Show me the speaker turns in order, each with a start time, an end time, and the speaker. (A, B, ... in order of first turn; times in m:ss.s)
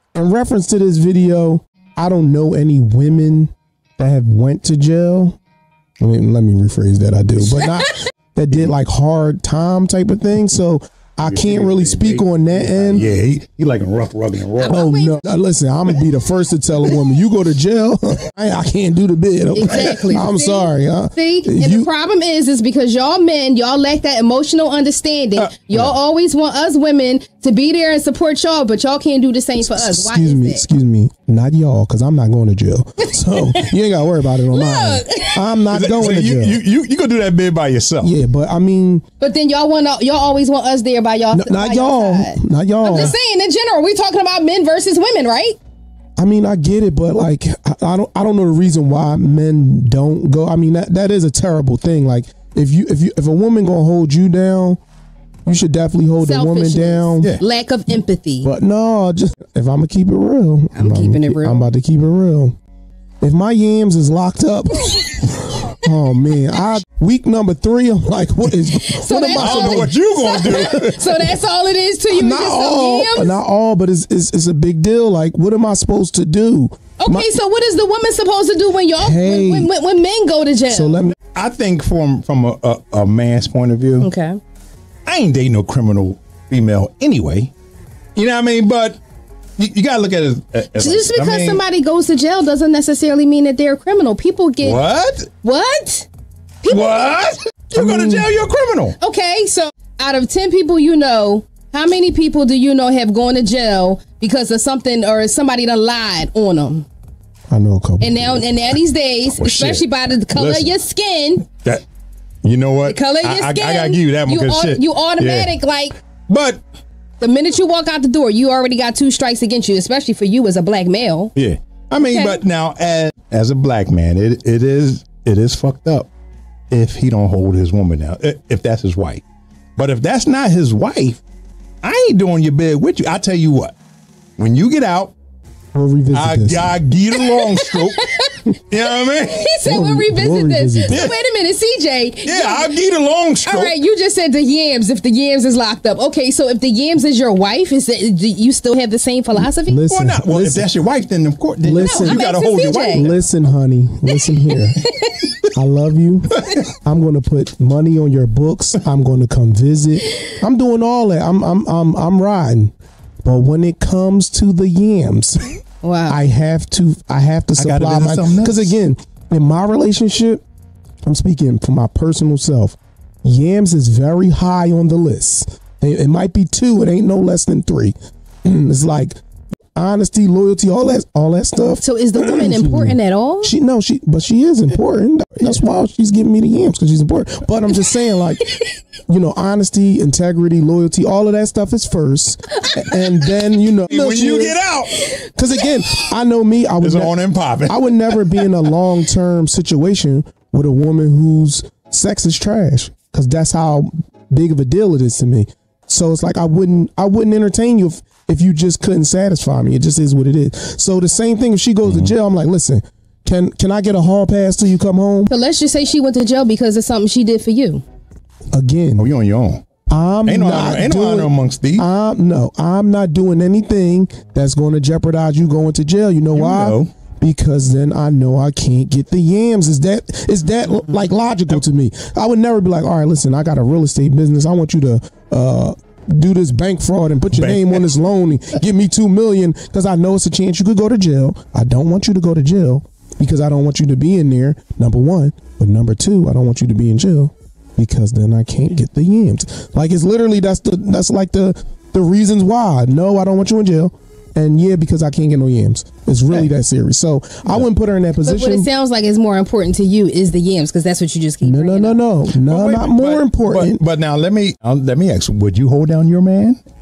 0:00.1-0:05.4 A
0:06.0-0:13.1 A
0:07.6-0:07.9 B
0:11.2-0:14.8 C
0:14.6-0:15.2 B
0:14.7-0:21.9 A
0:19.5-0:30.6 B
0:25.4-0:25.9 C
0:29.6-0:36.6 A
0:33.3-0:33.7 B
0:34.5-0:35.5 B
0:35.7-0:38.2 C
0:38.0-0:39.0 A
0:39.2-0:45.6 B
0:41.3-0:43.2 A
0:46.2-0:54.8 A
0:55.4-0:57.4 A
0:56.2-0:58.5 B
0:58.4-1:02.6 A
1:00.7-1:01.6 B
1:03.2-1:09.9 A
1:08.7-1:13.4 B
1:09.3-1:10.9 C
1:10.4-1:10.9 A
1:12.1-1:17.3 A
1:17.0-1:21.0 B
1:19.0-1:19.7 A
1:20.7-1:21.2 A
1:21.3-1:24.1 C
1:24.0-1:24.4 B
1:25.1-1:27.5 C
1:28.2-1:29.0 C
1:29.6-1:31.6 C
1:30.7-1:34.8 B
1:34.6-1:35.3 C
1:35.4-1:36.1 B
1:36.6-1:38.2 B
1:36.7-1:39.0 C
1:39.0-1:46.8 B
1:47.5-1:48.5 A
1:48.0-1:51.5 B
1:49.3-1:50.7 C
1:51.6-1:51.8 C
1:52.4-1:55.5 C
1:52.8-1:55.9 B
1:56.3-1:56.6 C
1:57.2-2:01.3 B
2:01.4-2:06.1 C
2:02.0-2:02.4 B
2:06.7-2:09.2 C
2:09.8-2:11.2 C
2:11.8-2:13.7 C
2:14.4-2:15.1 C
2:15.7-2:16.8 A
2:16.1-2:18.0 C
2:17.1-2:18.5 B
2:18.7-2:19.5 C
2:19.1-2:22.7 B
2:19.6-2:21.0 A
2:20.9-2:21.1 C
2:22.2-2:23.7 C
2:23.4-2:29.8 B
2:29.4-2:30.7 A
2:29.9-2:33.2 C
2:31.6-2:32.2 A
2:31.8-2:33.1 B
2:32.9-2:34.8 A
2:34.5-2:35.2 B
2:35.5-2:42.7 A
2:43.2-2:45.5 A
2:45.8-2:46.2 B
2:46.1-2:50.4 A
2:47.6-2:48.7 C
2:51.0-2:59.2 A
2:59.7-3:08.5 A
3:01.8-3:03.5 B
3:09.1-3:14.6 A
3:12.6-3:13.3 B
3:13.9-3:15.0 C
3:14.9-3:15.7 B
3:15.3-3:35.3 A
3:16.8-3:18.2 C
3:31.8-3:32.1 C
3:35.3-3:37.8 B
3:38.5-3:39.1 A
3:39.0-3:39.6 C
3:39.9-4:18.7 A
3:40.3-3:41.8 C
3:46.3-3:46.9 C
3:57.3-3:57.8 C
4:18.2-4:22.0 B
4:21.4-4:23.8 A
4:22.3-4:26.6 C